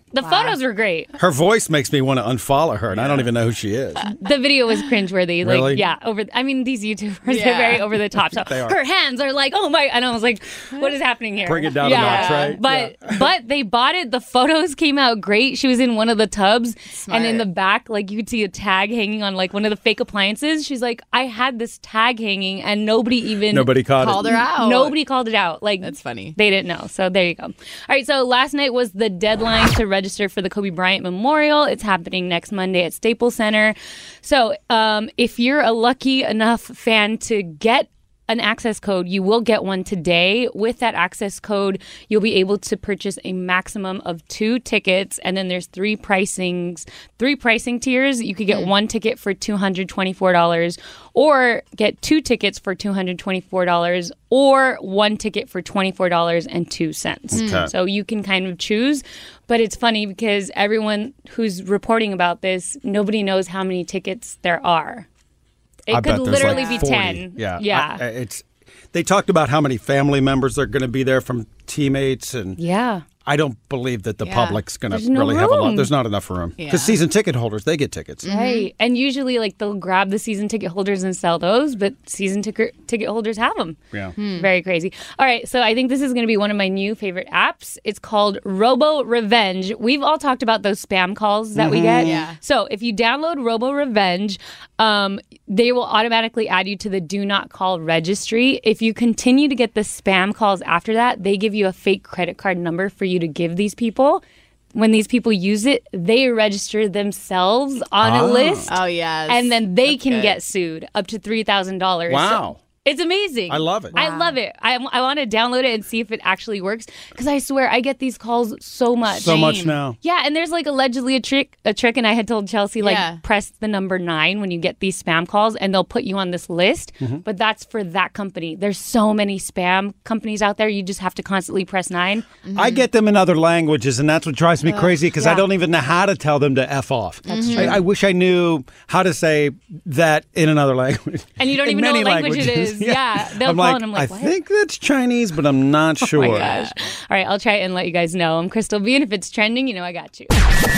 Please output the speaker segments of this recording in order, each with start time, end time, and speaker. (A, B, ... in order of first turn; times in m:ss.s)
0:00.1-0:01.1 A
0:00.2-0:00.6 B
0:01.2-0:04.1 C
0:04.2-0:23.7 A
0:05.4-0:05.8 C
0:07.3-0:07.8 B
0:08.2-0:08.8 C
0:11.4-0:13.3 C
0:11.8-0:12.6 B
0:16.9-0:17.5 B
0:23.5-0:24.4 C
0:24.0-0:25.0 B
0:24.2-1:05.1 A
0:25.8-0:26.4 B
0:57.3-0:57.7 C
0:57.3-0:57.7 B
1:05.9-1:08.0 A
1:05.9-1:12.6 C
1:06.3-1:06.9 B
1:12.6-1:13.0 A
1:13.2-1:18.3 C
1:14.2-1:14.6 B
1:14.9-1:15.9 A
1:16.6-1:17.0 B
1:18.2-1:18.7 B
1:18.3-1:23.8 A
1:24.2-1:24.5 B
1:24.3-1:44.2 A
1:31.6-1:32.2 C
1:32.0-1:32.4 B
1:44.8-1:48.7 A
1:48.0-1:48.7 C
1:48.7-1:50.4 B
1:49.3-2:12.3 A
1:52.1-1:52.6 C
1:53.5-1:54.0 C
1:53.9-1:54.4 B
1:59.1-2:00.0 C
2:02.8-2:03.2 B
2:12.5-2:12.8 B
2:12.6-2:26.6 C
2:15.2-2:15.4 A
2:17.3-2:17.8 A
2:17.3-2:17.8 B
2:21.4-2:24.3 A
2:26.0-2:30.3 A
2:26.2-2:26.7 B